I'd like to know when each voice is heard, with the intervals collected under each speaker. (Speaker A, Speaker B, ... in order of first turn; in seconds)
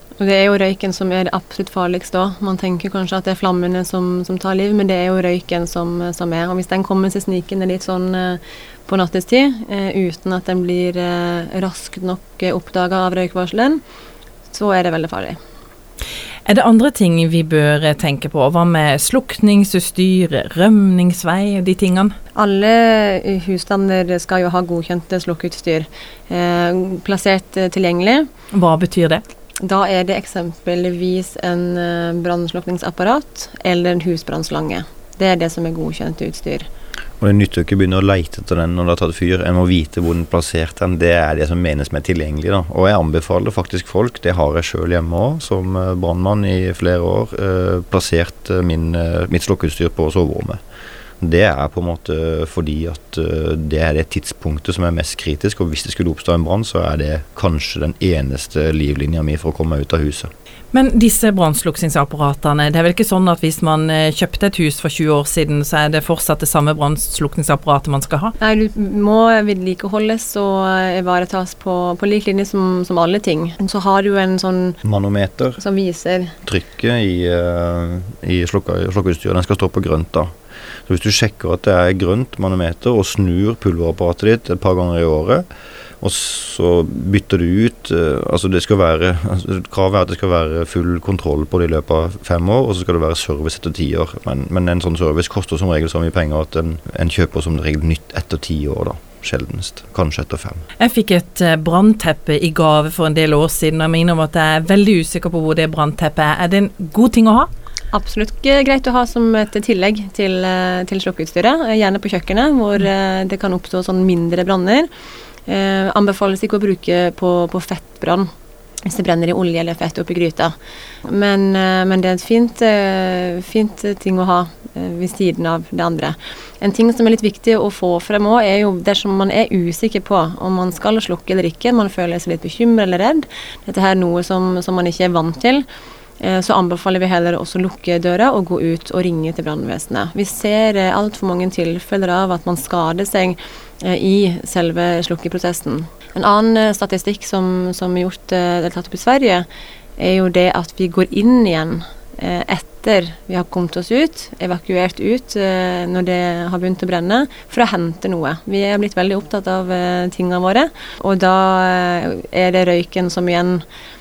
Speaker A: 0.2-13.8, 14.5-15.4, 22.3-28.3, 29.6-36.7, 68.4-74.8, 75.6-76.3, 107.9-114.9, 115.5-118.3, 118.8-135.6, 136.2-149.5, 150.0-163.6
Speaker B: 16.4-22.1, 28.5-29.2, 60.7-68.3, 100.8-107.5
Speaker C: 37.2-50.6, 51.2-60.3, 74.8-75.6, 76.5-80.3, 80.9-85.4, 86.0-100.6